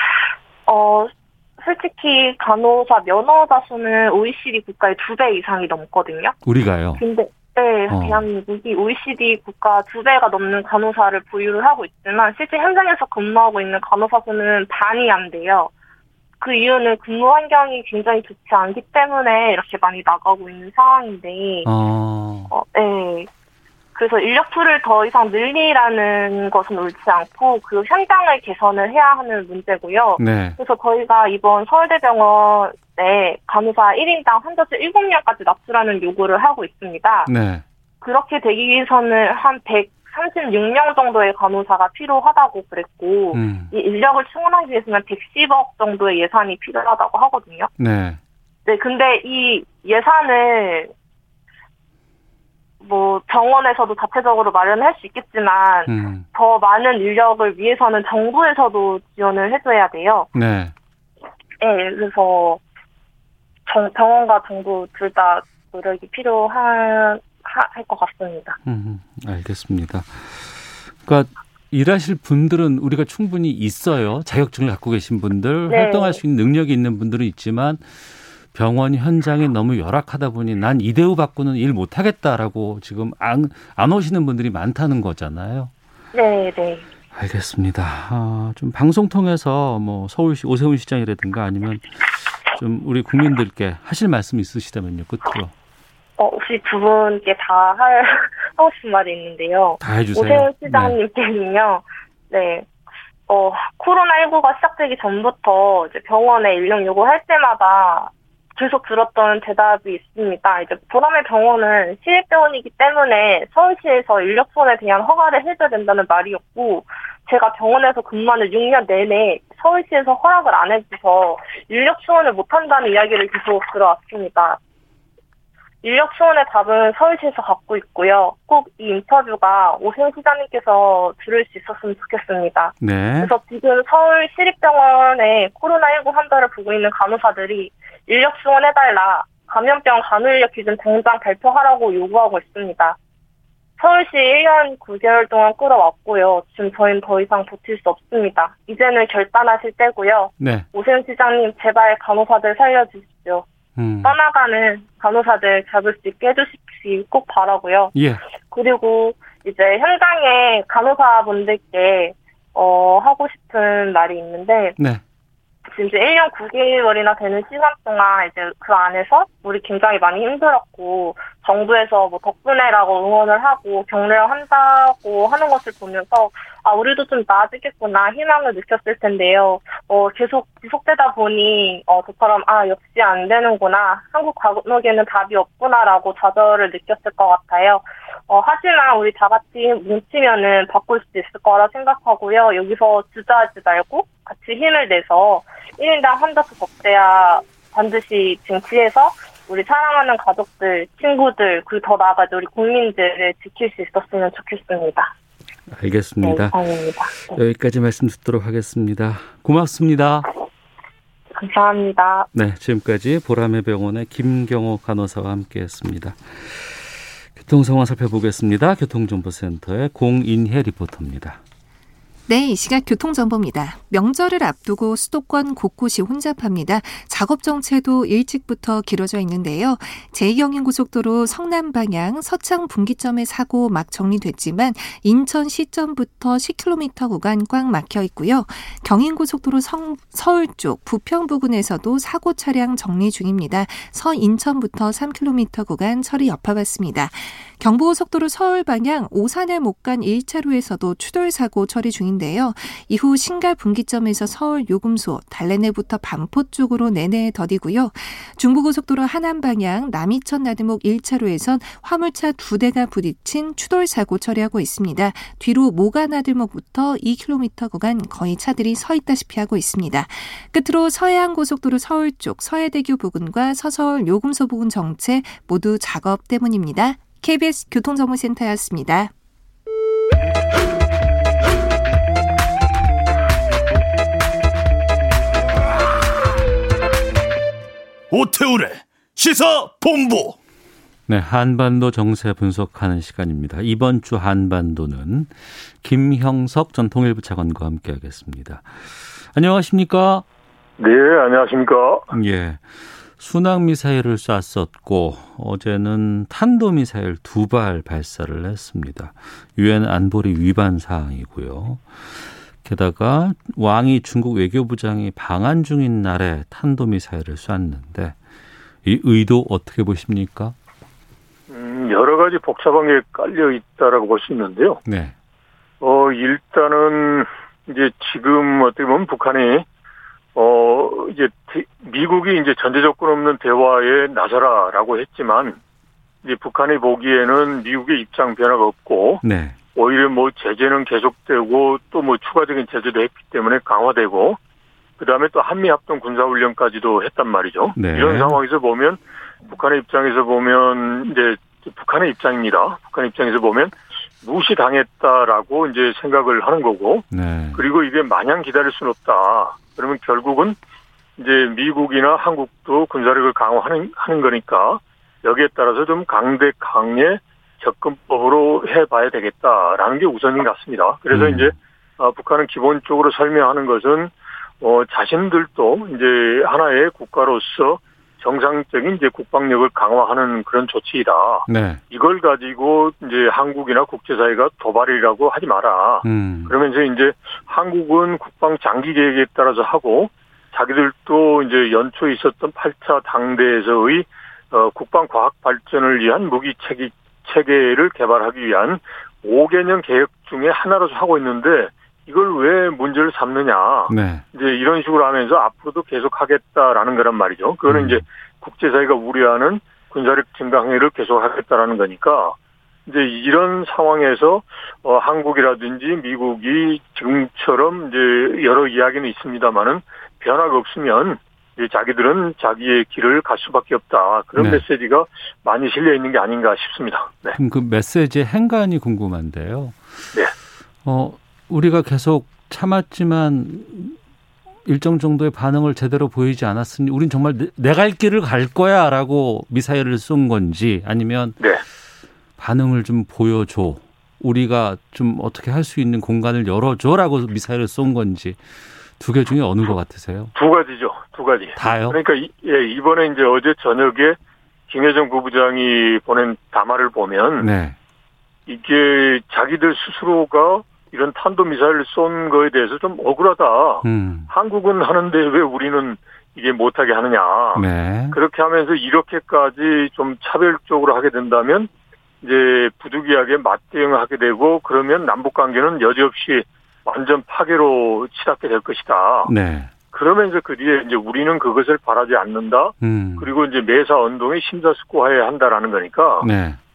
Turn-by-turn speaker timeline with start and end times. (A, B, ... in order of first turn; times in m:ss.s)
0:00.7-0:06.4 A
0:06.4-0:07.0 B
0:07.0-0:15.7 A
0:07.9-0:08.2 B
0:16.4-0:21.7 A
0:21.6-0:22.5 B
0:22.5-0:23.3 A
0:24.0-0:37.3 A
0:30.2-0:30.6 B
0:37.3-0:37.6 B
0:38.0-0:47.7 A
0:43.3-0:43.7 B
0:47.8-0:48.2 B
0:48.6-0:50.9 A
0:52.8-1:00.3 A
0:55.9-0:56.3 B
1:00.3-1:00.7 B
1:01.6-1:02.6 A
1:03.7-1:08.6 A
1:08.6-1:25.7 B
1:15.7-1:16.2 A
1:26.1-1:26.8 A
1:27.1-1:35.5 B
1:36.2-1:42.7 A
1:39.8-1:41.0 B
1:43.3-2:04.6 A
2:05.8-2:23.0 A
2:12.8-2:13.3 B
2:23.8-2:33.4 A
2:30.4-2:30.7 B
2:33.8-2:34.2 B
2:34.0-2:37.9 A
2:37.9-2:38.2 B
2:38.5-2:44.8 A
2:44.8-2:45.0 B
2:45.7-3:25.1 A
3:25.7-3:26.6 B
3:26.2-3:27.4 A
3:27.2-3:30.3 B
3:31.3-3:32.3 A
3:32.3-3:41.4 B
3:42.3-4:39.1 C
4:48.1-4:50.4 D
4:51.1-5:00.2 B
5:00.8-5:02.1 E
5:02.1-5:18.2 B
5:18.8-5:20.6 B
5:21.5-5:24.8 E
5:24.8-5:25.1 B
5:25.8-5:29.7 E
5:30.4-5:35.6 E
5:36.2-5:39.2 E
5:39.2-5:39.6 B
5:39.8-5:44.4 E
5:45.0-6:00.6 E
5:47.7-5:48.4 B
5:57.1-5:57.6 B
6:01.2-6:52.4 E
6:11.1-6:11.5 B
6:21.5-6:21.8 B
6:26.0-6:26.6 B
6:43.9-6:44.2 B
6:47.7-6:48.0 B
6:52.9-7:07.4 E
7:04.4-7:04.6 B
7:07.3-7:10.1 B
7:10.8-7:14.0 B
7:14.6-7:21.4 B
7:22.4-7:28.4 B
7:29.0-7:30.3 B
7:30.4-7:34.2 E
7:31.6-7:32.0 B
7:34.7-7:37.5 E
7:37.4-7:37.8 B
7:38.5-7:51.7 E
7:43.8-7:44.3 B
7:47.6-7:48.2 B
7:52.2-7:59.3 E
7:59.2-7:59.7 B
7:59.9-8:06.3 E
8:02.8-8:03.3 B
8:06.2-8:06.6 B